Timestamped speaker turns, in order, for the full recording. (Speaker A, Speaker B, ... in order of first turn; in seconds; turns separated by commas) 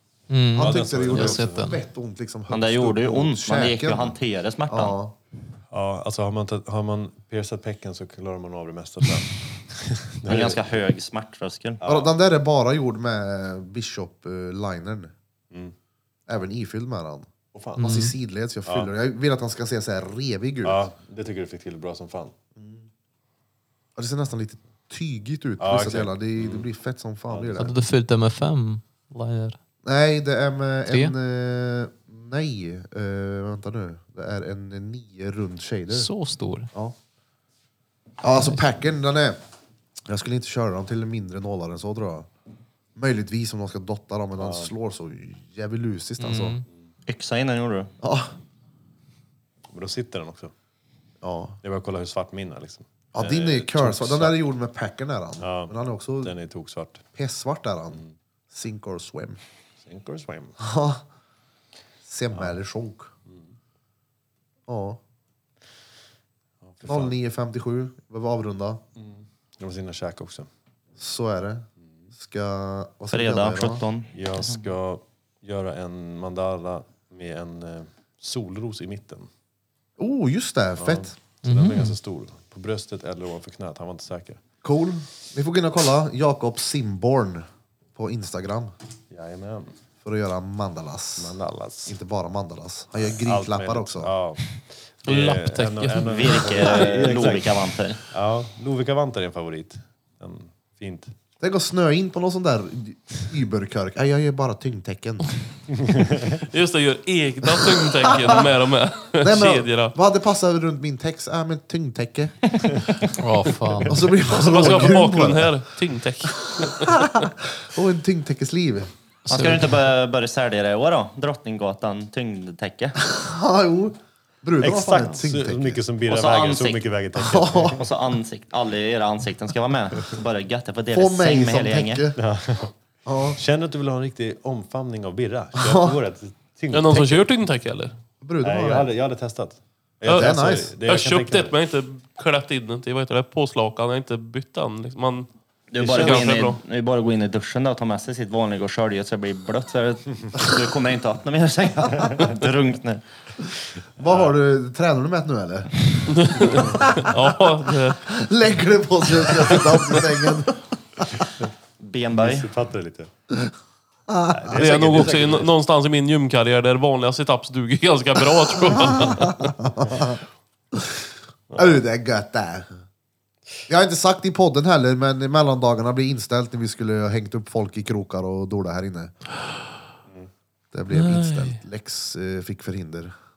Speaker A: 0.3-1.8, Speaker B: 0.6-4.2, Speaker C: 0.6-1.8, Speaker D: 2.5-5.0, Speaker B: 4.7-5.2, Speaker C: 5.7-10.8, Speaker D: 10.3-11.8, Speaker C: 11.8-12.1, Speaker B: 11.8-15.1, Speaker B: 16.3-20.9, Speaker C: 17.5-18.0, Speaker A: 17.8-18.1, Speaker C: 20.6-22.3, Speaker B: 22.6-22.9, Speaker B: 24.0-27.7, Speaker C: 25.6-26.7, Speaker C: 27.3-27.7, Speaker A: 27.6-29.6, Speaker B: 29.9-36.1, Speaker A: 30.9-31.1, Speaker A: 35.9-36.7, Speaker B: 38.2-39.4, Speaker B: 40.1-42.3, Speaker B: 43.0-46.6, Speaker C: 44.4-44.7, Speaker A: 46.2-46.6, Speaker D: 47.1-47.9, Speaker B: 48.0-48.3, Speaker C: 49.7-50.5, Speaker B: 51.2-51.6, Speaker C: 51.6-54.4, Speaker B: 53.1-56.3, Speaker C: 55.4-57.1, Speaker B: 57.1-59.4, Speaker C: 59.9-60.6, Speaker B: 60.6-61.0, Speaker B: 62.1-63.1, Speaker B: 64.7-65.0, Speaker C: 66.6-67.2, Speaker B: 66.8-68.8, Speaker C: 69.0-70.5, Speaker B: 71.0-73.8, Speaker D: 73.1-74.6, Speaker C: 74.1-79.3, Speaker B: 80.0-81.1, Speaker C: 80.8-84.4, Speaker A: 81.4-82.0, Speaker B: 84.6-88.7, Speaker C: 89.1-89.7, Speaker B: 90.0-91.3, Speaker C: 91.2-92.0, Speaker B: 91.9-94.1, Speaker C: 93.2-97.5, Speaker E: 95.1-96.7, Speaker D: 96.0-98.0, Speaker C: 98.1-101.1, Speaker B: 101.4-105.3, Speaker C: 105.8-106.4, Speaker E: 106.4-109.9, Speaker B: 107.6-108.3, Speaker B: 109.2-112.3, Speaker A: 113.2-114.0, Speaker B: 113.9-115.5, Speaker E: 114.3-117.0, Speaker B: 116.6-118.9, Speaker A: 119.3-119.7, Speaker D: 119.3-123.0, Speaker B: 123.1-125.8, Speaker C: 124.6-127.9, Speaker D: 126.1-126.8, Speaker B: 127.2-127.8, Speaker D: 127.8-132.0, Speaker B: 130.9-132.2, Speaker C: 132.2-132.7, Speaker B: 133.1-133.4, Speaker C: 133.3-137.2, Speaker B: 135.6-135.9, Speaker E: 136.7-137.9, Speaker B: 138.2-138.9, Speaker C: 138.4-141.5, Speaker E: 140.1-145.3, Speaker B: 140.1-140.7, Speaker D: 145.7-153.0, Speaker C: 145.8-146.3, Speaker E: 145.9-146.6, Speaker B: 154.0-157.3, Speaker C: 154.1-154.3, Speaker E: 156.1-158.0, Speaker C: 156.4-156.8, Speaker B: 157.9-161.3, Speaker D: 161.8-162.5, Speaker C: 162.1-163.1, Speaker B: 164.1-164.7, Speaker C: 164.3-165.5, Speaker E: 164.5-169.5, Speaker B: 168.8-170.2, Speaker B: 170.7-172.7, Speaker C: 171.5-171.8, Speaker B: 173.7-179.1, Speaker B: 180.7-183.1, Speaker E: 180.9-181.6